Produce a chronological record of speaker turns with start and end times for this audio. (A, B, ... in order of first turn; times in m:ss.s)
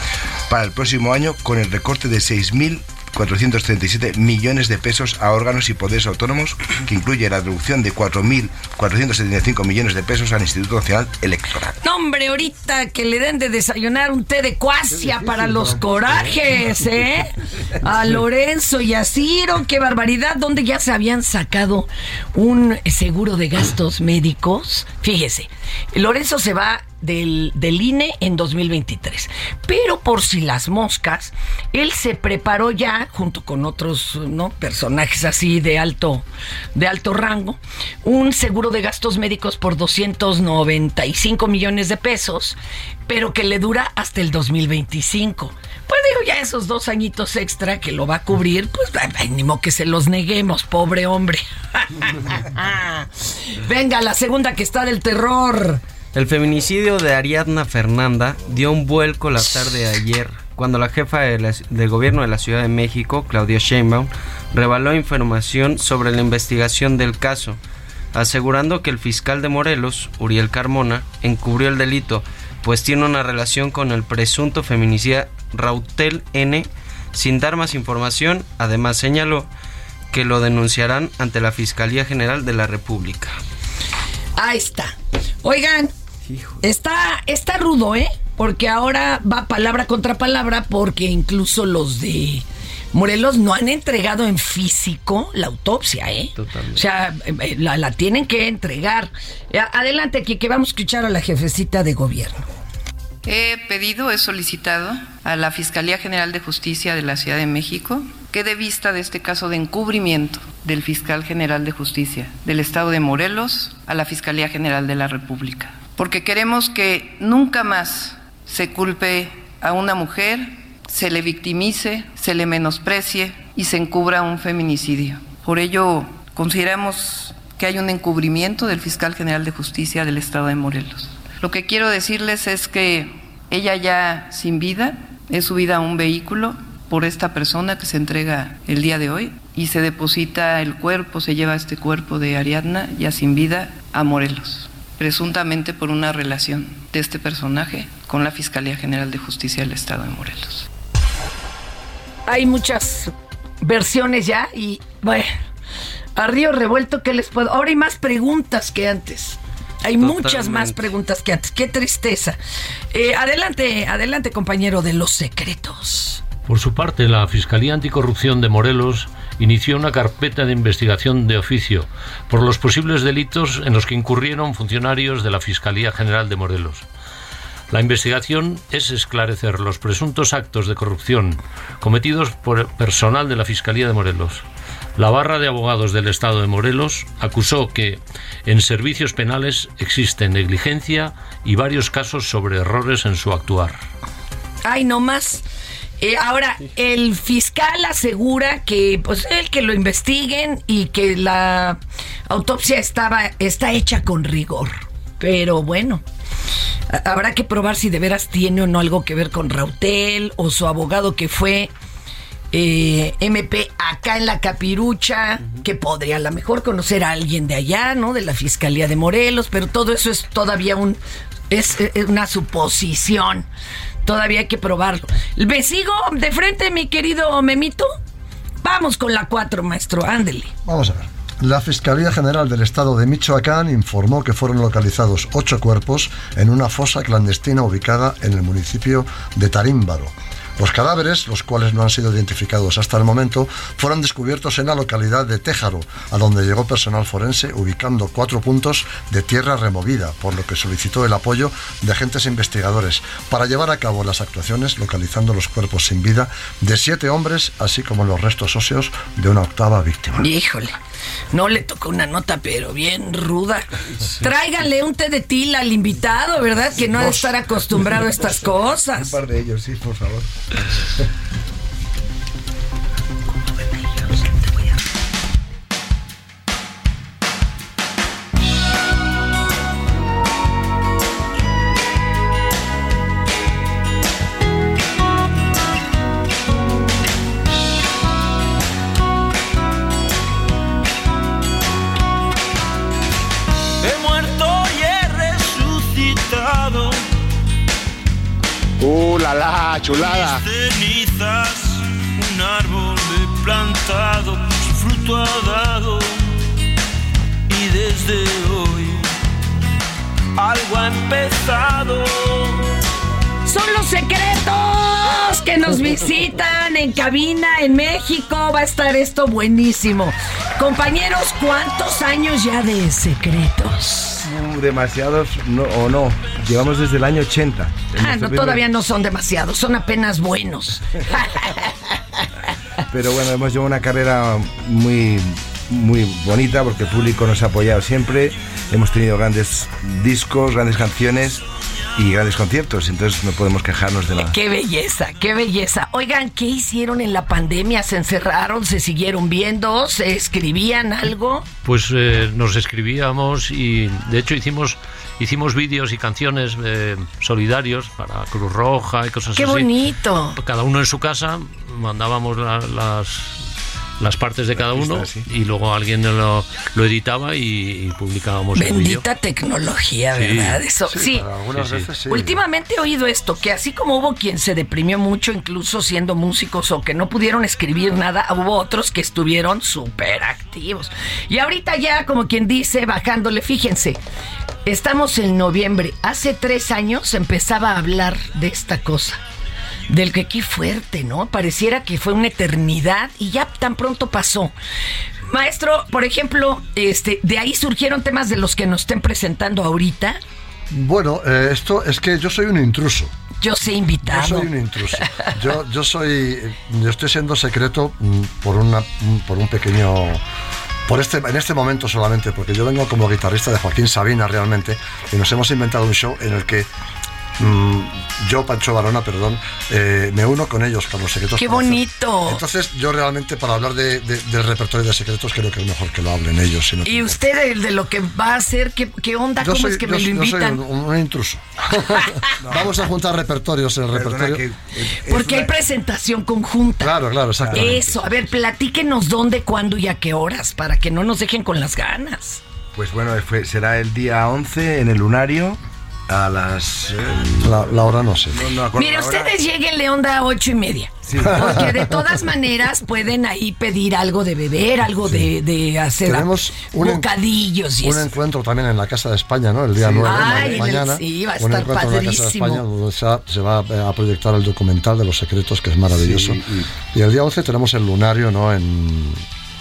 0:00.5-0:11.8 A
0:11.8-0:42.6 B
0:15.0-0:16.3 C
0:43.1-0:55.8 B
0:56.1-1:07.6 D
1:08.1-1:19.5 D
1:20.1-1:23.4 D
1:24.4-1:25.9 B
1:26.6-1:42.5 B
1:36.4-1:36.8 D
1:43.2-2:30.7 E
2:32.3-2:35.3 B
2:36.2-2:42.4 B
2:40.0-2:40.9 D
2:42.9-2:46.2 B
2:46.5-2:56.9 F
2:57.7-3:04.4 F
3:05.0-3:13.8 F
3:14.6-3:15.4 B
3:16.0-3:21.8 B
3:22.3-3:26.0 B
3:26.9-3:31.7 B
3:32.5-3:41.0 B
3:41.5-3:43.5 B
3:44.0-3:47.9 B
3:48.6-3:50.5 B
3:50.6-4:20.3 C
4:20.2-4:20.7 B
4:21.3-4:29.1 B
4:29.0-4:30.3 A
4:33.3-4:34.7 B
4:53.8-4:57.0 G
4:59.9-5:06.2 G
5:07.5-5:09.0 G
5:10.4-5:12.6 G
5:13.5-5:24.2 B
5:24.2-5:28.6 A
5:28.0-5:31.7 B
5:32.9-5:41.4 A
5:42.0-5:44.3 A
5:44.2-5:51.5 B
5:51.6-5:59.8 F
5:59.4-6:00.4 B
6:00.4-6:03.4 F
6:04.0-6:09.0 F
6:04.6-6:05.3 A
6:08.6-6:11.2 B
6:10.2-6:10.6 F
6:10.9-6:12.4 C
6:11.6-6:11.9 F
6:12.1-6:24.0 B
6:24.7-6:29.2 B
6:29.9-6:34.5 B
6:35.3-6:40.2 B
6:40.7-6:43.1 C
6:43.4-6:44.5 B
6:44.1-6:50.2 C
6:50.9-6:56.7 C
6:57.4-7:07.2 C
7:01.4-7:02.4 B
7:06.9-7:10.6 B
7:09.4-7:14.4 C
7:12.1-7:12.3 B
7:12.4-7:12.8 A
7:13.9-7:15.6 A
7:15.1-7:17.0 B
7:16.8-7:18.1 C
7:17.4-7:17.9 A
7:17.5-7:22.4 B
7:22.8-7:27.6 A
7:27.4-7:28.5 C
7:28.3-7:29.3 A
7:28.8-7:38.1 B
7:31.1-7:31.9 A
7:31.2-7:32.2 C
7:35.0-7:35.3 C
7:36.0-7:37.1 C
7:37.8-7:49.2 C
7:39.8-7:40.8 A
7:40.1-7:42.6 B
7:45.9-7:46.7 A